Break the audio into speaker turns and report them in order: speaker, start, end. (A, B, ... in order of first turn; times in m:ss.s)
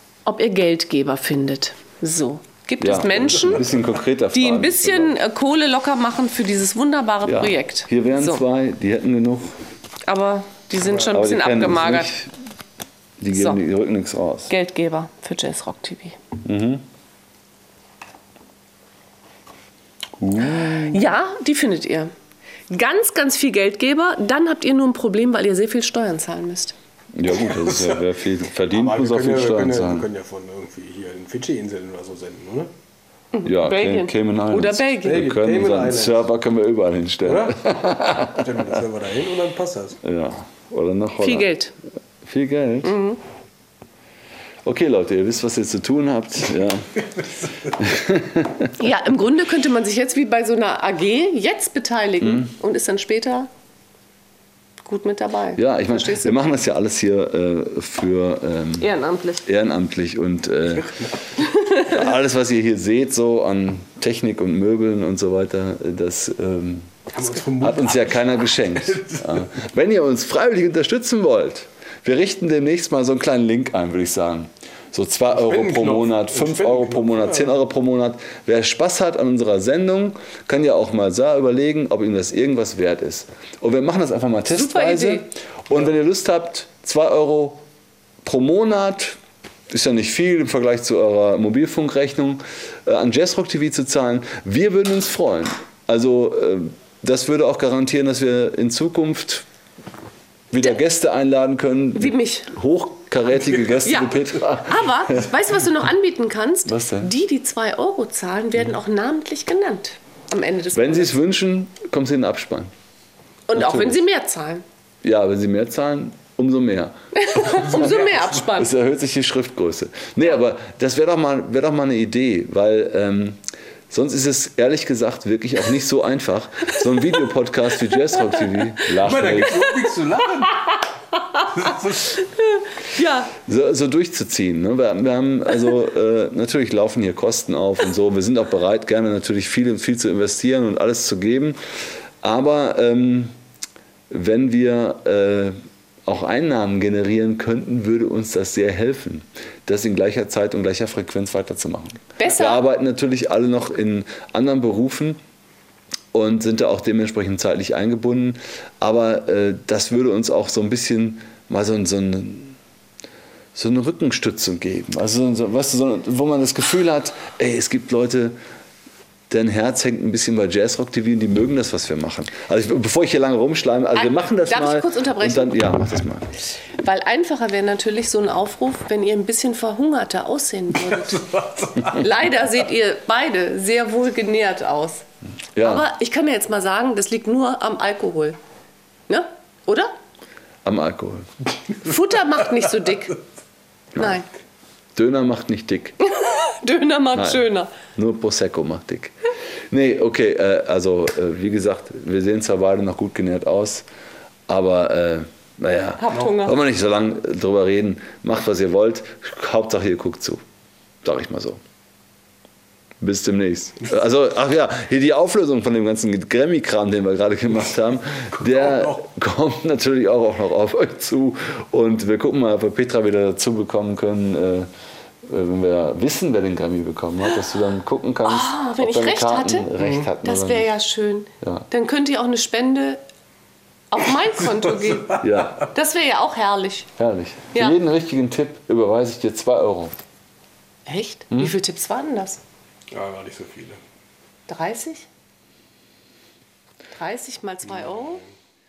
0:00.3-0:03.7 A
0:02.8-0:05.2 B
0:04.3-0:08.4 A
0:07.2-0:09.6 B
0:10.1-0:12.2 A
0:11.1-0:12.3 B
0:13.2-0:14.5 B
0:13.3-0:13.6 A
0:14.5-0:16.2 A
0:16.4-0:16.8 B
0:20.2-0:21.1 B
0:20.5-0:22.1 A
0:22.7-0:26.8 A
0:27.1-0:30.1 B
0:27.5-0:28.0 C
0:28.7-0:32.7 C
0:33.3-0:35.2 A
0:33.4-0:38.8 B
0:35.0-0:36.3 C
0:37.2-0:37.7 C
0:38.2-0:40.0 C
0:40.0-0:41.5 B
0:41.2-0:41.7 A
0:42.2-0:43.0 B
0:42.8-0:43.2 A
0:44.6-0:47.1 B
0:47.2-0:47.7 C
0:47.7-0:48.8 B
0:48.8-0:53.5 A
0:52.2-0:52.5 B
0:54.8-0:56.4 A
0:55.6-0:58.9 B
0:58.8-0:59.5 A
0:59.4-1:01.0 B
1:00.7-1:01.2 C
1:01.4-1:02.1 A
1:01.7-1:06.9 B
1:07.1-1:09.5 C
1:07.6-1:27.6 B
1:15.3-1:17.6 C
1:24.5-1:25.3 A
1:28.2-1:29.2 B
1:29.7-1:39.5 B
1:40.5-1:45.4 B
1:42.0-1:42.5 A
1:43.8-1:51.1 A
1:46.7-1:47.1 B
1:50.7-1:52.7 B
1:53.5-1:54.6 A
1:53.5-1:54.0 B
1:55.0-1:57.6 B
1:57.1-1:58.7 A
1:57.4-1:58.5 C
1:58.5-2:09.7 B
2:08.9-2:10.7 C
2:10.6-2:13.4 A
2:11.5-2:12.2 C
2:13.4-2:23.4 B
2:24.1-2:35.2 B
2:32.2-2:32.6 A
2:36.1-2:42.6 B
2:43.6-2:48.4 B
2:49.3-2:56.3 B
2:54.0-2:55.6 A
2:56.8-3:05.0 A
3:00.8-3:02.0 C
3:05.6-3:05.9 B
3:05.6-3:08.4 A
3:09.1-3:10.0 A
3:10.6-3:11.3 B
3:11.8-3:13.2 A
3:14.0-3:14.2 B
3:14.0-3:14.3 A
3:15.0-3:16.0 B
3:16.1-3:17.7 A
3:17.2-3:19.2 B
3:19.7-3:23.9 B
3:24.5-3:30.4 B
3:26.0-3:26.6 A
3:31.0-3:31.6 B
3:33.0-3:44.7 B
3:38.4-3:39.0 C
3:45.2-3:50.7 B
3:48.2-3:49.7 A
3:49.8-3:50.1 C
3:50.2-3:53.0 A
3:51.4-3:51.7 B
3:53.9-3:56.9 A
3:55.2-3:55.7 B
3:57.0-3:59.9 B
4:00.9-4:02.4 A
4:01.3-4:01.6 B
4:02.9-4:03.8 C
4:04.5-4:05.1 A
4:06.9-4:08.2 A